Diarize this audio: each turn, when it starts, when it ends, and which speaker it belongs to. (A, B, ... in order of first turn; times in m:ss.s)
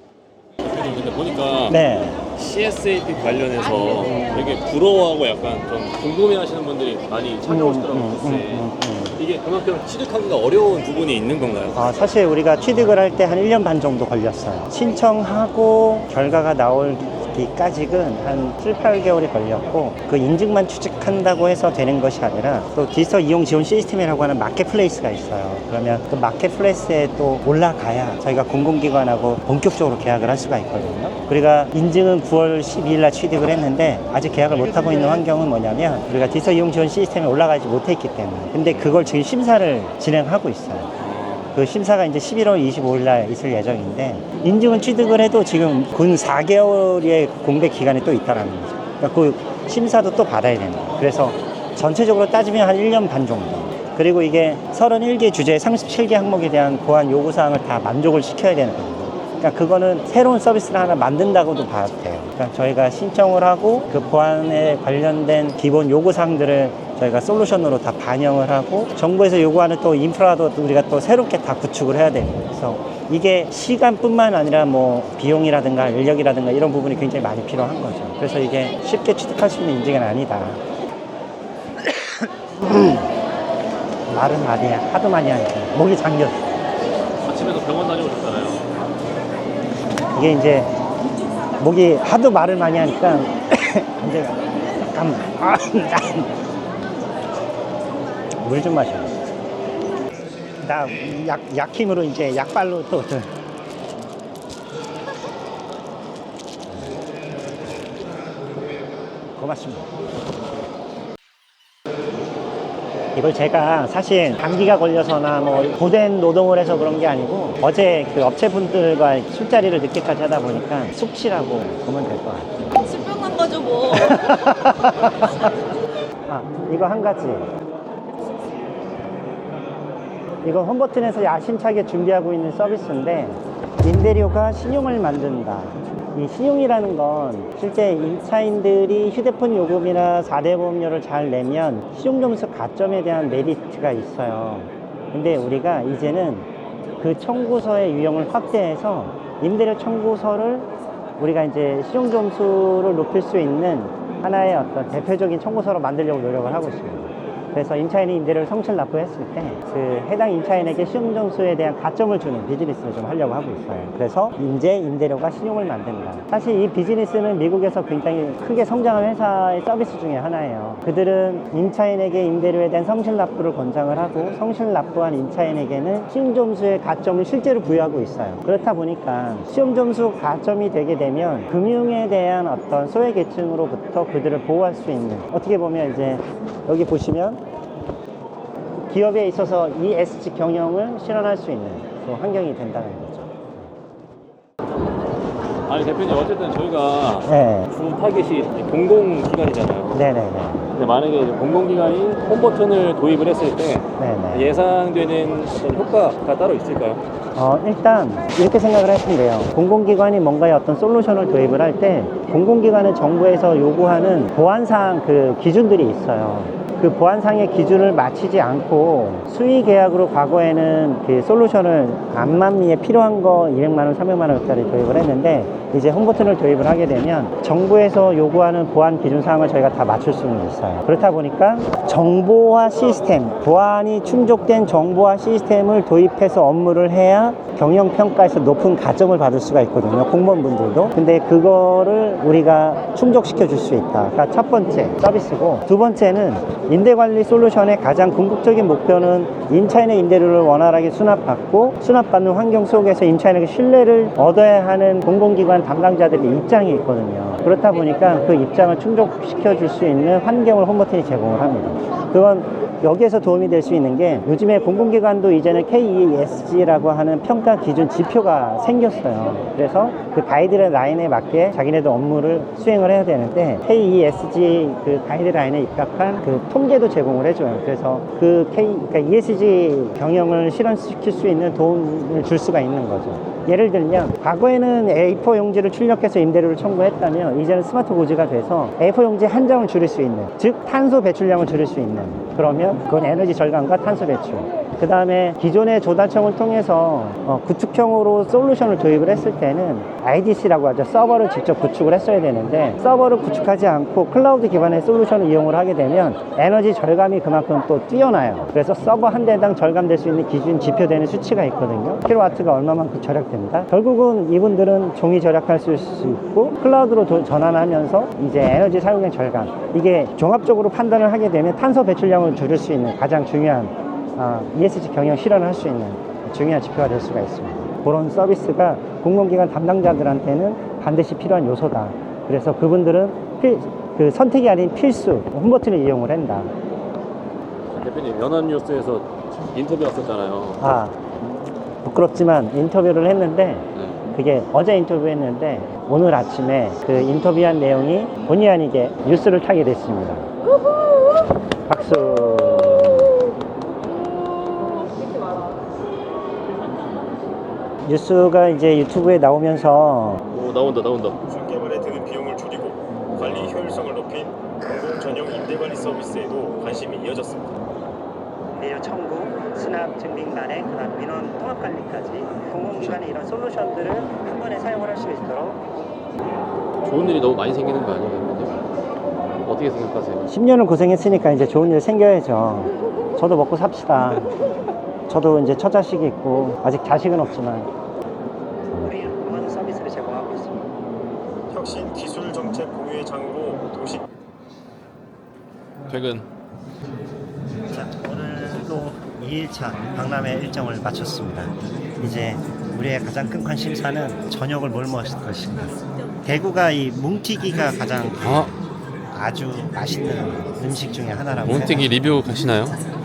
0:00.6-0:01.8 A
0:01.7-0:02.2 B
0:02.3-0:11.8 A
0:04.0-0:04.5 B
0:07.5-0:09.2 B
0:11.7-0:40.9 B
0:38.7-0:39.0 A
0:41.0-0:41.6 A
0:41.5-1:20.6 B
1:21.8-1:23.1 B
1:24.1-1:26.6 B
1:27.2-1:28.6 A
1:30.1-1:30.7 B
1:31.6-1:36.3 B
1:38.4-1:39.2 B
1:40.6-1:43.3 B
1:49.4-1:49.9 B
1:53.1-2:05.3 B
2:06.3-2:07.5 B
2:10.4-3:07.4 B
3:08.9-3:13.7 B
3:15.7-3:20.0 A
3:17.2-3:17.7 B
3:19.9-3:20.7 B
3:20.8-3:27.0 A
3:24.0-3:24.6 B
3:27.4-5:36.5 B
5:37.7-5:40.6 A
5:40.6-5:41.0 B
5:41.8-5:50.3 B
5:43.8-5:44.0 A
5:51.7-5:53.1 B
5:57.8-6:00.2 B
6:00.3-6:01.2 A
6:01.3-6:07.6 C
6:03.2-6:03.7 A
6:08.5-6:15.6 B
6:16.8-6:18.6 A
6:19.4-6:20.3 A
6:20.3-6:24.3 B
6:25.1-6:27.7 B
6:28.7-6:30.7 B
6:31.5-6:34.0 C
6:35.9-6:36.3 A
6:37.7-6:48.5 B
6:48.2-6:48.5 A
6:49.1-6:52.0 B
6:51.5-6:52.8 A